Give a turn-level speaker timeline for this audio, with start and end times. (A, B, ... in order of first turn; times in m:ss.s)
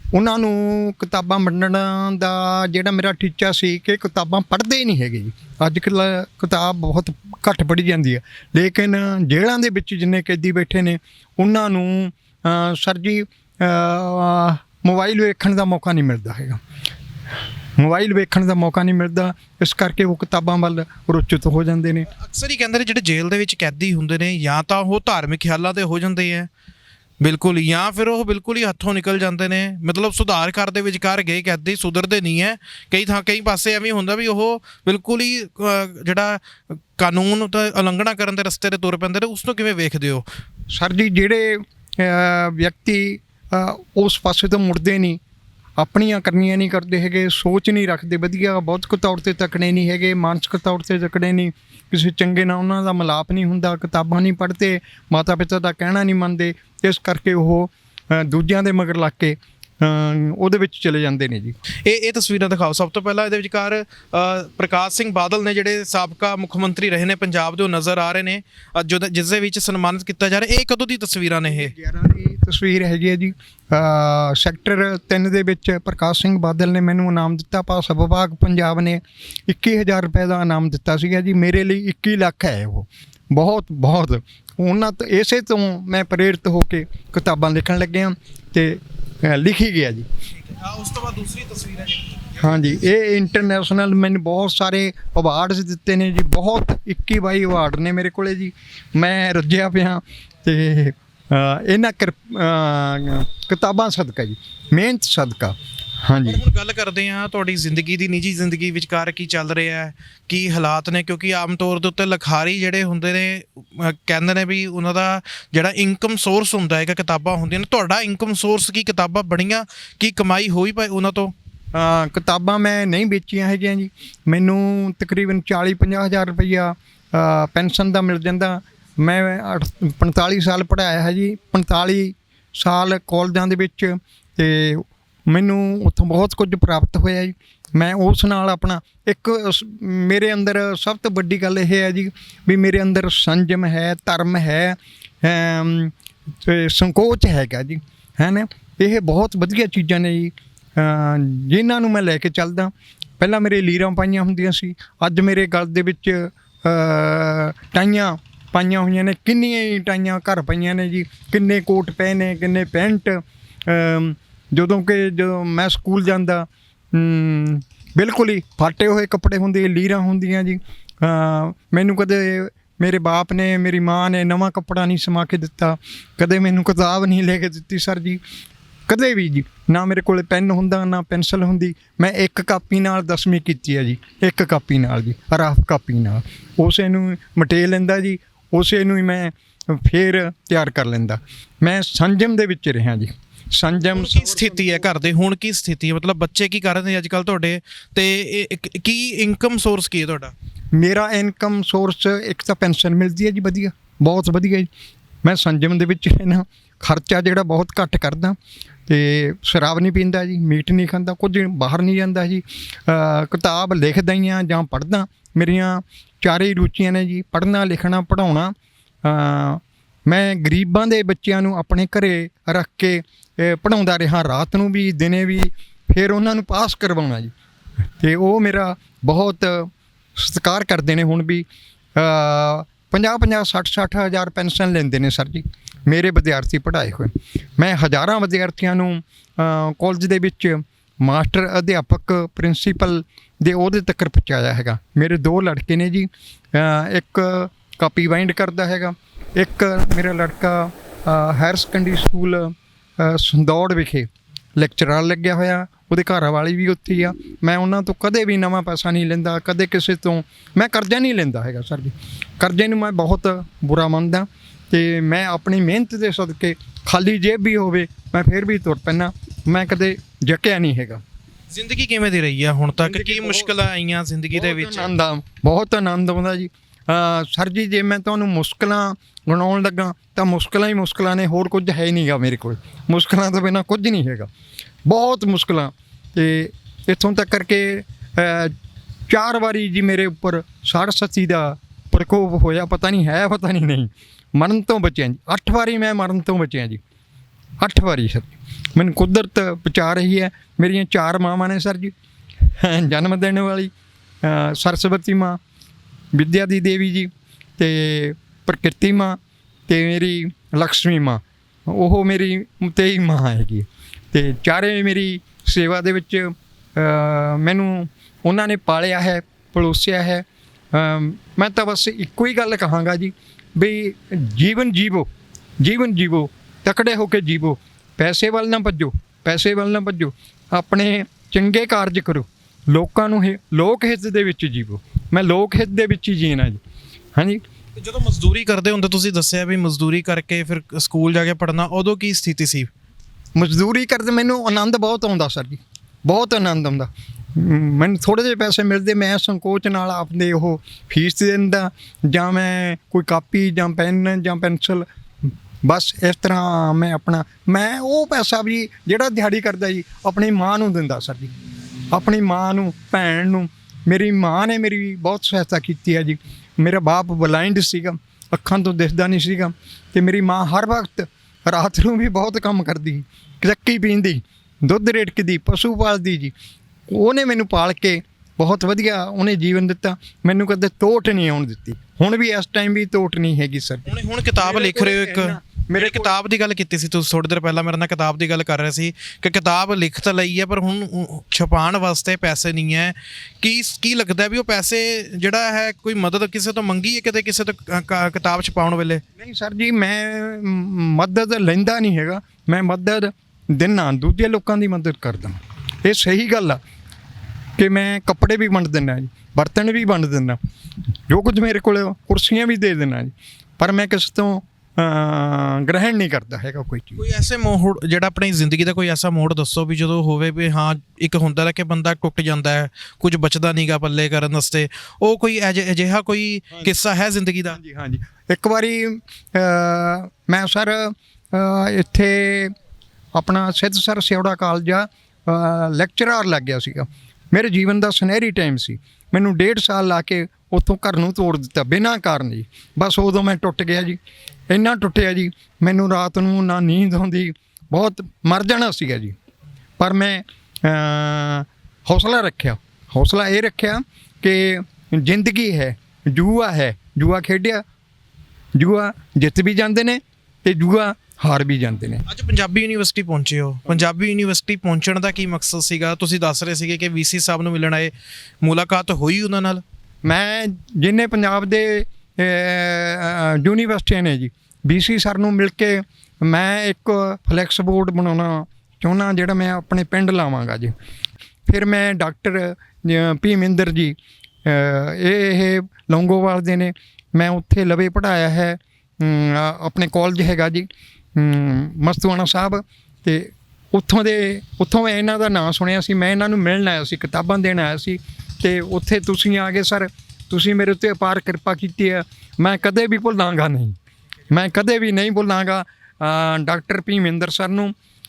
0:00.1-0:16.6 A
0:17.8-0:22.1 A
0:22.1-0:26.5 B
0:27.2-0:40.2 B
0:40.7-0:45.2 A
0:45.8-1:01.6 A
1:01.8-1:11.7 B
1:11.5-1:30.1 A
1:30.4-1:32.5 B
1:32.4-1:46.4 A
1:46.3-2:01.3 B
2:01.7-2:25.9 A
2:26.4-2:58.2 A
2:58.9-3:14.7 A
3:13.9-3:20.3 B
3:20.7-3:24.7 A
3:25.2-3:38.5 A
3:39.0-3:47.3 A
3:48.0-4:31.0 A
4:31.5-4:34.9 B
4:32.8-4:33.5 A
4:34.3-4:44.3 A
4:44.9-4:48.5 A
4:49.1-4:56.8 A
4:57.6-5:01.9 A
5:02.5-5:03.7 A
5:04.2-5:05.4 A
5:06.1-5:25.1 A
5:25.6-5:36.6 A
5:37.2-5:37.4 A
5:37.8-5:42.7 B
5:43.4-6:01.3 A
6:01.9-6:16.3 A
6:16.9-6:26.2 A
6:23.9-6:39.0 B
6:39.2-6:46.6 A
6:47.6-6:50.4 A
6:51.1-6:57.0 A
6:57.0-7:07.6 B
7:07.5-7:12.5 A
7:13.2-7:24.0 A
7:24.5-7:29.2 A
7:29.8-7:37.6 A
7:38.6-7:42.0 A
7:42.1-7:47.9 B
7:48.4-7:49.6 B
7:50.0-8:00.7 A
8:01.5-8:23.8 A
8:24.3-8:27.7 A